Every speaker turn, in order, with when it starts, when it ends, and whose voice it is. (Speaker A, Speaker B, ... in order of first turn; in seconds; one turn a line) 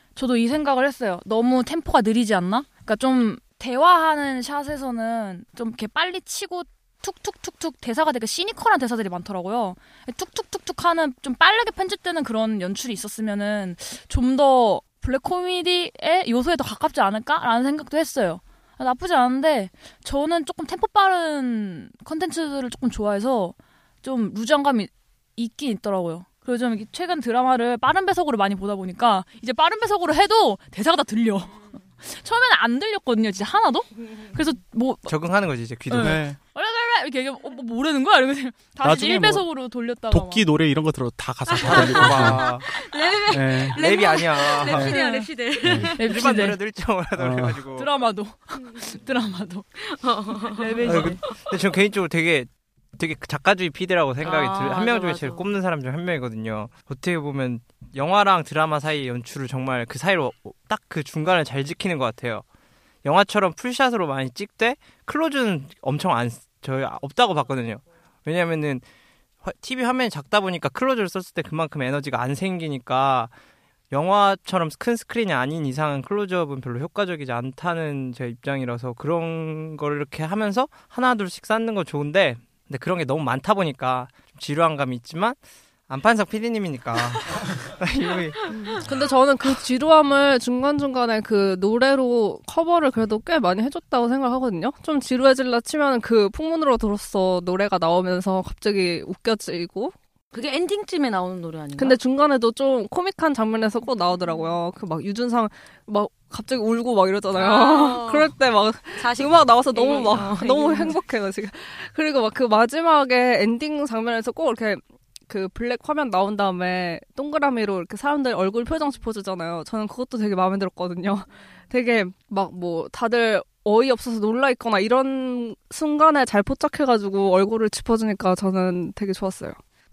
Speaker A: 0.2-35.1
Speaker B: 35.1-36.2
Speaker A: 35.9-40.5
Speaker C: 36.0-36.4
Speaker C: 38.8-39.5
Speaker C: 40.1-42.6
Speaker D: 41.6-46.3
Speaker B: 41.6-42.6
Speaker C: 43.3-43.8
Speaker B: 43.8-45.0
Speaker C: 44.7-45.0
Speaker A: 45.0-45.3
Speaker C: 45.6-45.9
Speaker A: 46.0-46.6
Speaker B: 46.0-47.9
Speaker C: 47.1-47.6
Speaker A: 47.8-49.8
Speaker D: 49.8-51.4
Speaker A: 50.4-51.2
Speaker B: 50.9-62.4
Speaker D: 54.2-55.5
Speaker B: 63.0-68.8
Speaker B: 69.4-73.3
Speaker B: 73.9-88.9
Speaker E: 88.5-100.0
Speaker D: 100.3-102.0
Speaker E: 101.8-129.6
Speaker D: 107.3-108.4
Speaker D: 108.9-111.0